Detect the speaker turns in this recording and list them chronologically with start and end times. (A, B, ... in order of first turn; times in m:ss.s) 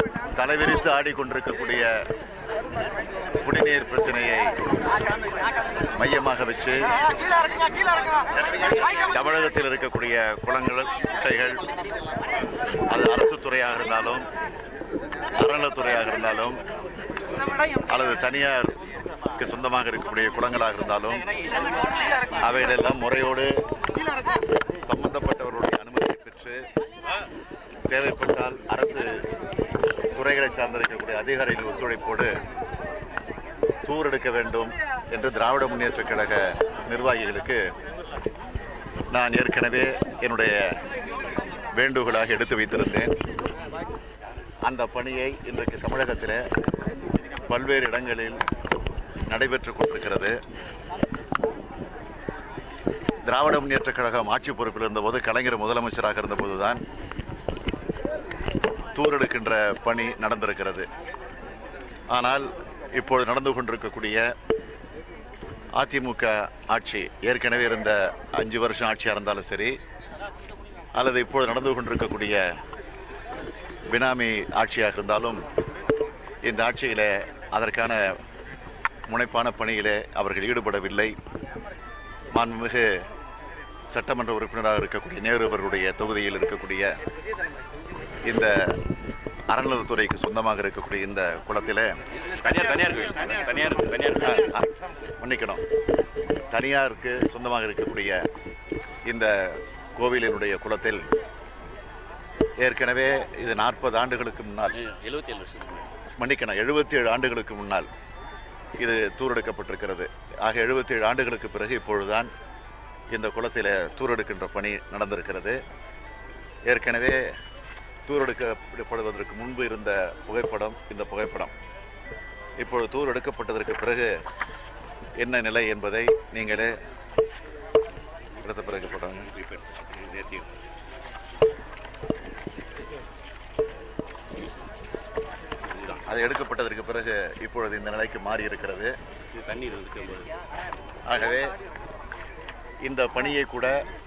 0:00.4-0:01.9 A
0:03.4-0:04.6 A
0:06.0-0:06.9 A
0:08.9-0:11.6 A
0:12.9-0:14.3 A
0:15.4-0:16.6 A
0:17.8-0:18.7 A
0:19.4-0:21.3 A
0:22.4-0:23.5 A
0:24.8-0:26.6 A
0:27.9-0:29.2 A
0:30.1-0:32.3 A
0:33.8-0:37.7 A
0:39.1-0:40.7 A
0:41.7-0:43.1 A
0:44.6-0:46.4 A
0:47.5-0:48.4 A
0:49.3-0:50.4 A
0:53.2-0:56.8 A
0:58.9-1:00.9 A
1:02.1-1:04.2 A
1:05.8-1:09.8 A
1:11.0-1:12.4 A
1:13.9-1:15.4 A
1:16.4-1:18.2 A
1:19.1-1:21.1 A
1:22.3-1:22.9 A
1:23.9-1:26.9 A
1:28.3-1:28.7 A
1:29.5-1:31.9 A
1:32.3-1:34.4 B
1:34.2-1:35.6 A
1:36.5-1:38.2 A
1:39.1-1:41.0 A
1:42.6-1:44.8 A
1:44.8-1:45.9 B
1:46.1-1:47.9 A
1:48.8-1:52.3 A
1:53.1-1:55.6 A
1:56.7-1:57.2 A
1:58.1-2:01.5 A
2:02.6-2:04.1 A
2:05.2-2:06.8 A
2:08.4-2:09.3 A
2:09.3-2:10.5 B
2:15.7-2:16.0 B
2:16.0-2:18.9 A
2:19.3-2:20.3 B
2:21.1-2:21.5 A
2:22.8-2:23.8 A